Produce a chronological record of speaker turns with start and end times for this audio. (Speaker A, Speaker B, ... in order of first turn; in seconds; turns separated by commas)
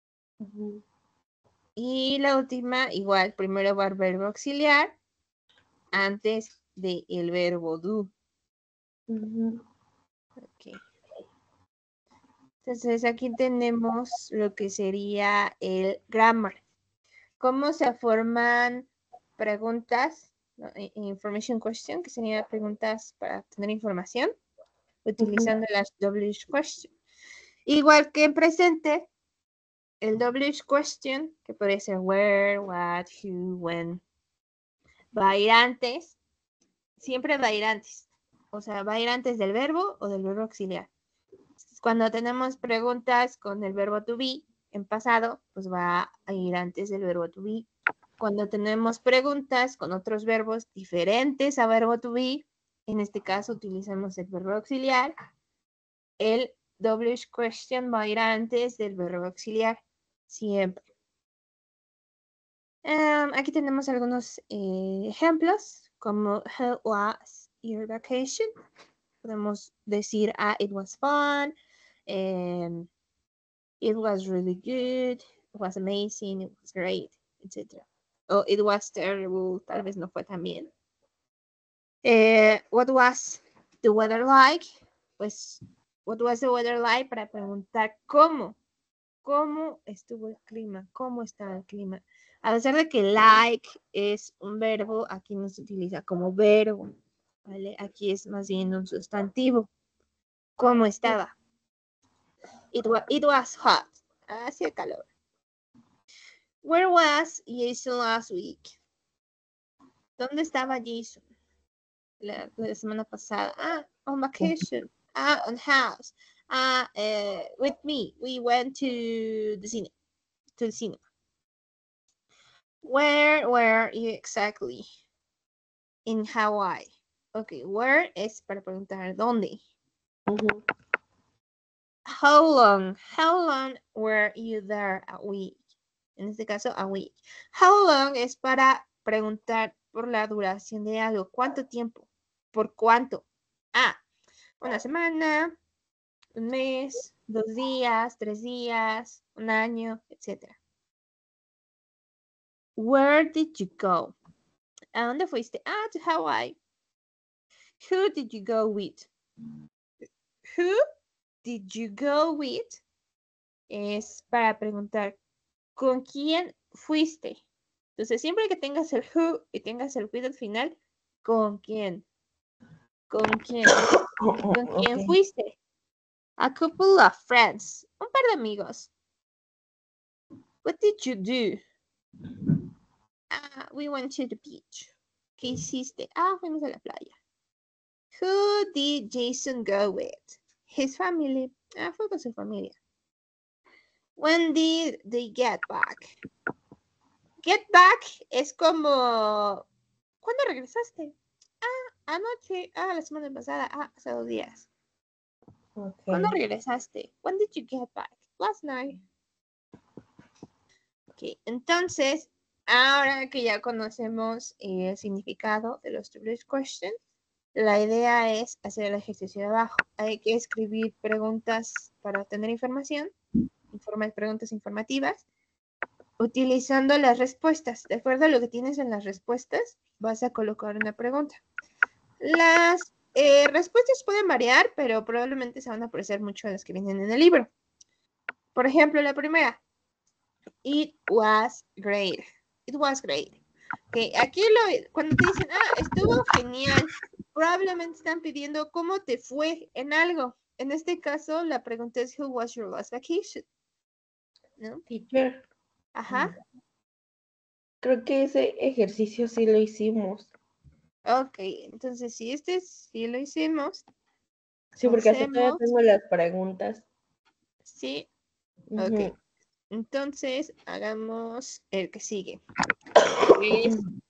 Speaker A: 0.4-0.8, Speaker B: 1.8-5.0, Speaker B: 5.9-8.1, Speaker A: 9.1-9.6, Speaker B: 10.4-10.8, Speaker B: 12.6-16.6, Speaker B: 17.4-24.3, Speaker B: 25.0-26.9, Speaker A: 25.2-25.5, Speaker B: 27.7-29.1, Speaker B: 30.0-34.0, Speaker B: 35.1-36.1, Speaker B: 37.0-40.9, Speaker B: 41.7-47.7, Speaker B: 48.2-55.1, Speaker B: 56.2-60.7, Speaker B: 62.8-68.5, Speaker B: 69.2-71.5, Speaker B: 72.1-72.9, Speaker B: 73.8-80.7, Speaker B: 82.0-84.6, Speaker B: 85.2-88.6, Speaker B: 89.2-96.9, Speaker B: 97.5-99.7, Speaker B: 100.6-101.3, Speaker B: 102.7-105.1, Speaker B: 106.6-108.8, Speaker B: 110.2-111.2, Speaker B: 112.2-119.9, Speaker B: 120.6-121.0, Speaker B: 122.8-124.8, Speaker B: 126.0-129.6, Speaker A: 130.3-130.6, Speaker B: 132.1-135.6, Speaker B: 136.2-144.0, Speaker B: 144.6-145.5, Speaker B: 146.3-150.6, Speaker B: 152.8-154.1, Speaker B: 154.9-156.6, Speaker B: 157.8-159.1, Speaker B: 161.4-162.8, Speaker B: 163.7-165.2, Speaker B: 165.8-167.4, Speaker B: 167.9-172.1, Speaker B: 173.1-173.9, Speaker A: 174.2-175.1, Speaker B: 174.5-175.6, Speaker B: 176.4-178.9, Speaker B: 180.6-181.6, Speaker B: 183.3-187.2, Speaker B: 188.2-192.8, Speaker B: 194.2-196.1, Speaker B: 197.4-199.7, Speaker B: 200.2-204.7, Speaker A: 205.8-206.4, Speaker B: 206.1-209.0, Speaker B: 211.2-216.9, Speaker B: 217.5-223.1, Speaker B: 223.7-225.2, Speaker B: 226.2-231.4, Speaker B: 232.2-237.5, Speaker B: 238.5-239.6, Speaker B: 240.6-243.4, Speaker B: 243.9-253.4, Speaker A: 254.9-255.4, Speaker B: 255.9-256.3, Speaker A: 256.1-256.4, Speaker A: 257.8-260.3, Speaker B: 261.1-263.8, Speaker A: 264.8-266.9, Speaker B: 264.8-265.6, Speaker B: 267.6-268.1, Speaker A: 268.7-269.1, Speaker B: 268.8-269.1, Speaker B: 269.7-272.4, Speaker B: 273.3-273.8